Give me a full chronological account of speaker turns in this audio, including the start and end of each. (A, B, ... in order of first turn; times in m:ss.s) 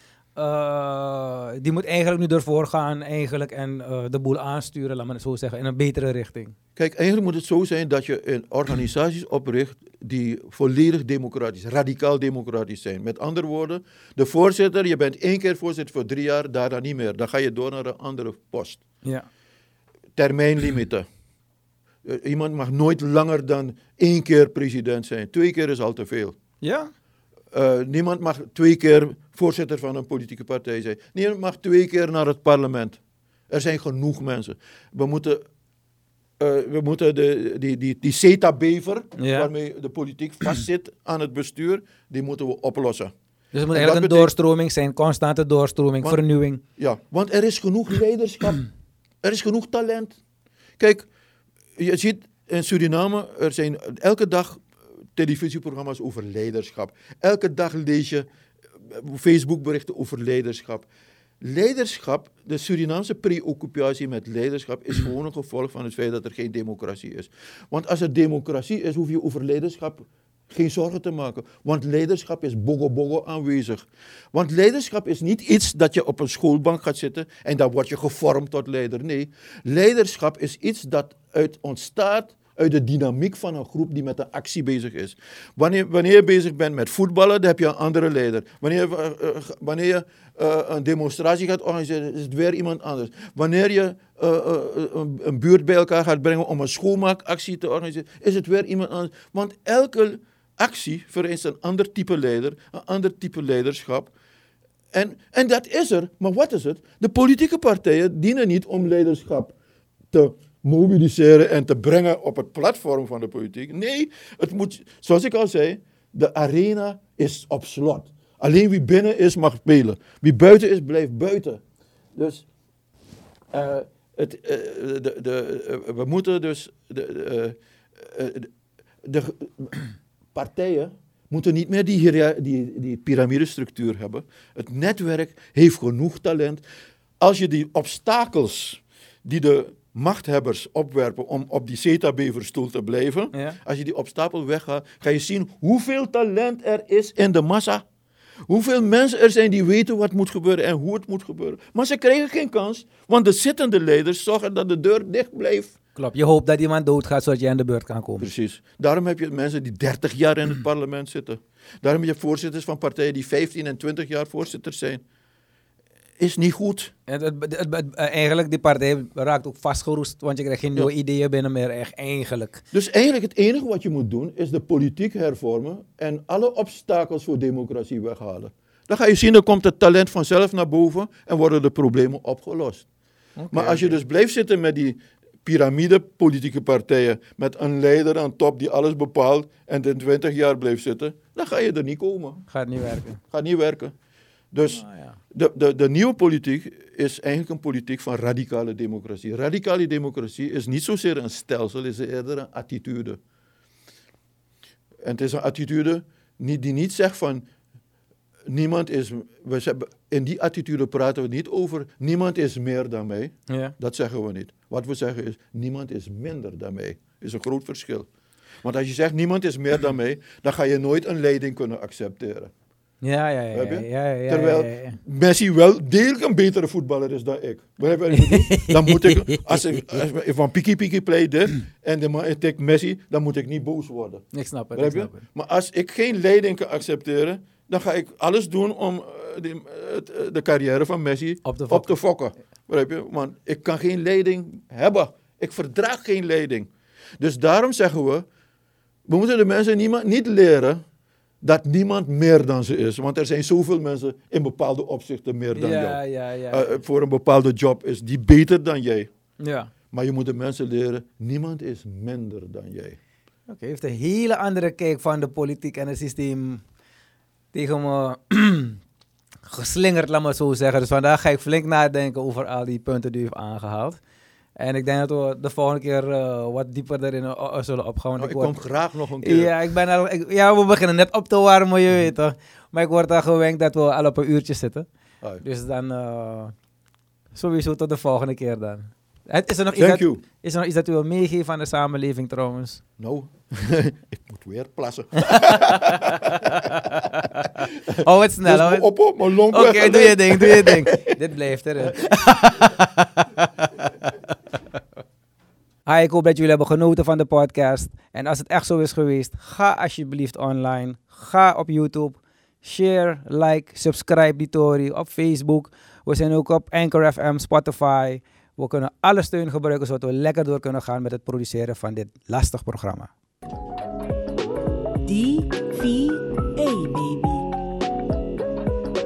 0:00.4-0:06.5 A
0:06.8-0:18.8 B
0:20.2-0:21.0 B
0:22.0-0:26.4 B
0:26.6-0:26.9 A
0:27.5-0:35.4 B
0:36.4-0:43.1 B
0:39.2-0:39.5 A
0:43.5-0:46.6 A
0:43.7-0:44.3 B
0:46.8-0:48.6 B
0:49.2-0:50.1 B
0:50.8-0:51.0 B
0:51.8-0:58.3 B
0:58.8-1:00.9 B
1:01.4-1:44.1 B
1:44.9-1:49.5 B
1:50.1-2:01.6 B
2:02.1-2:02.4 B
2:03.5-2:08.5 B
2:09.0-2:16.6 B
2:17.2-2:27.8 B
2:23.3-2:23.6 A
2:28.5-2:35.7 B
2:36.0-2:38.3 A
2:38.2-2:45.0 B
2:46.2-2:46.9 B
2:47.1-2:52.6 A
2:52.7-3:02.9 B
3:03.4-3:04.0 A
3:03.5-3:12.4 B
3:12.5-3:13.2 A
3:13.2-3:13.9 B
3:14.5-3:23.2 B
3:14.7-3:15.2 A
3:25.0-3:27.4 B
3:28.5-3:38.1 B
3:33.5-3:33.7 A
3:38.6-3:42.5 B
3:43.0-3:45.0 A
3:43.5-4:08.2 B
3:48.1-3:50.0 A
3:54.3-3:55.2 A
4:01.4-4:02.0 A
4:09.1-4:10.8 B
4:11.4-4:19.1 B
4:15.5-4:16.8 A
4:19.4-4:19.7 A
4:19.9-4:23.0 B
4:23.5-4:26.6 A
4:27.5-4:28.8 A
4:29.4-4:34.0 A
4:34.6-4:38.6 A
4:38.2-4:39.5 B
4:39.2-4:44.9 A
4:45.4-4:46.5 A
4:47.3-4:52.8 A
4:49.7-4:50.2 B
4:53.0-5:01.2 B
4:55.2-4:58.9 A
4:59.5-5:04.1 A
5:05.9-5:23.1 A
5:25.0-5:27.5 C